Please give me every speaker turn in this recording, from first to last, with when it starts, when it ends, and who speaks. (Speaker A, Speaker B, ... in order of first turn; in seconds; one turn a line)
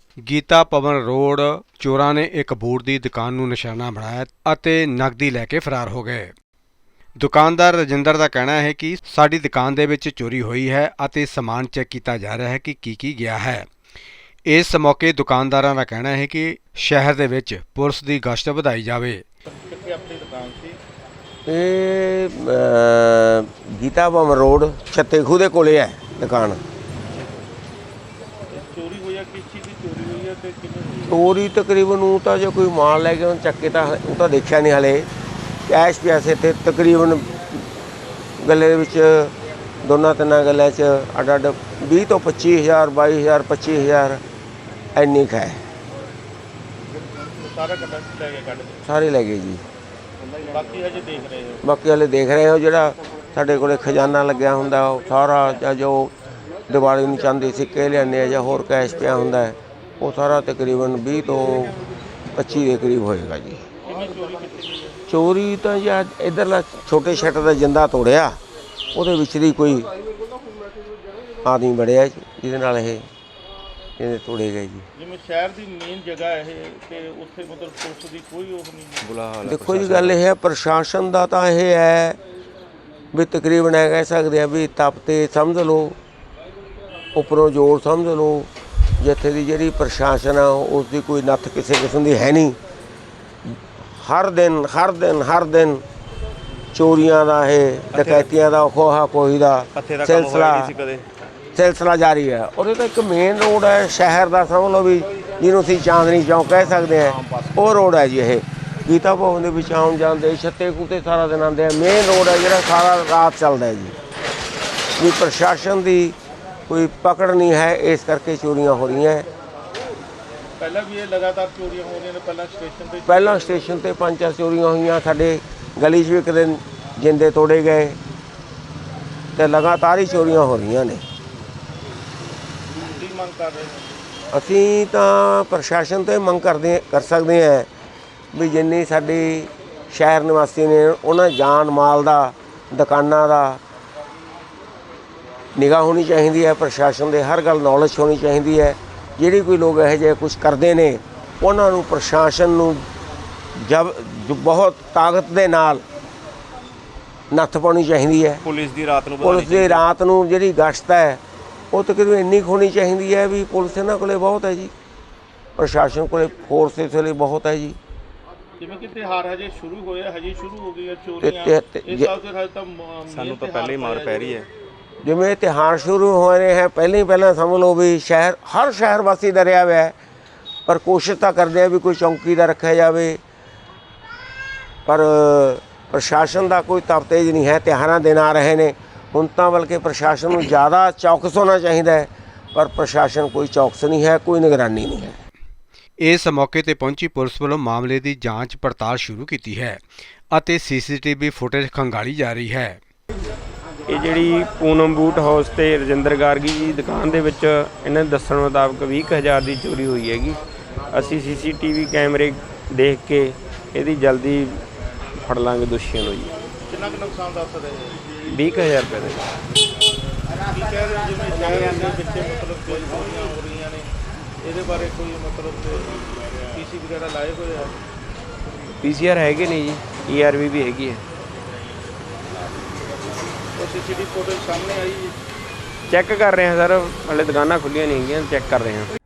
Speaker A: 0.2-6.3
Speaker A: 7.2-13.7
Speaker A: 14.5-19.2
Speaker B: 19.4-20.8
Speaker C: 21.5-26.6
Speaker B: 28.5-31.2
Speaker C: 31.1-35.1
Speaker C: 35.7-37.4
Speaker C: 38.4-39.3
Speaker C: 39.8-44.2
Speaker C: 44.9-45.6
Speaker B: 47.4-48.8
Speaker C: 48.9-49.6
Speaker B: 50.5-51.6
Speaker C: 51.6-56.1
Speaker C: 56.7-61.8
Speaker C: 62.4-63.6
Speaker B: 63.8-65.0
Speaker C: 65.1-68.4
Speaker C: 68.9-69.9
Speaker C: 71.4-73.0
Speaker C: 74.0-74.8
Speaker B: 75.0-79.1
Speaker D: 79.0-80.2
Speaker C: 79.4-82.2
Speaker C: 83.1-86.0
Speaker C: 87.1-92.6
Speaker C: 93.5-95.8
Speaker C: 96.7-100.7
Speaker D: 97.9-98.3
Speaker D: 99.8-101.0
Speaker C: 101.5-113.9
Speaker D: 107.1-107.5
Speaker C: 115.0-116.2
Speaker C: 116.7-119.3
Speaker B: 120.6-123.6
Speaker C: 123.1-128.0
Speaker C: 129.3-131.0
Speaker B: 132.8-133.8
Speaker C: 134.3-137.7
Speaker C: 138.3-143.6
Speaker C: 145.6-152.8
Speaker C: 153.6-155.8
Speaker C: 157.3-158.4
Speaker D: 158.4-159.8
Speaker C: 159.2-161.2
Speaker C: 161.7-164.7
Speaker C: 165.6-167.8
Speaker B: 168.6-174.4
Speaker C: 171.2-172.1
Speaker D: 173.1-174.5
Speaker C: 175.0-179.9
Speaker C: 180.7-183.2
Speaker C: 184.8-195.2
Speaker A: 196.0-199.8
Speaker A: 200.3-202.8
Speaker E: 203.8-214.6
Speaker E: 215.1-216.3
Speaker B: 216.7-218.0
Speaker E: 218.3-219.3
Speaker B: 220.5-223.9
Speaker B: 224.4-227.8
Speaker E: 228.8-231.0
Speaker B: 232.3-232.7
Speaker B: 233.5-235.1
Speaker E: 235.9-238.9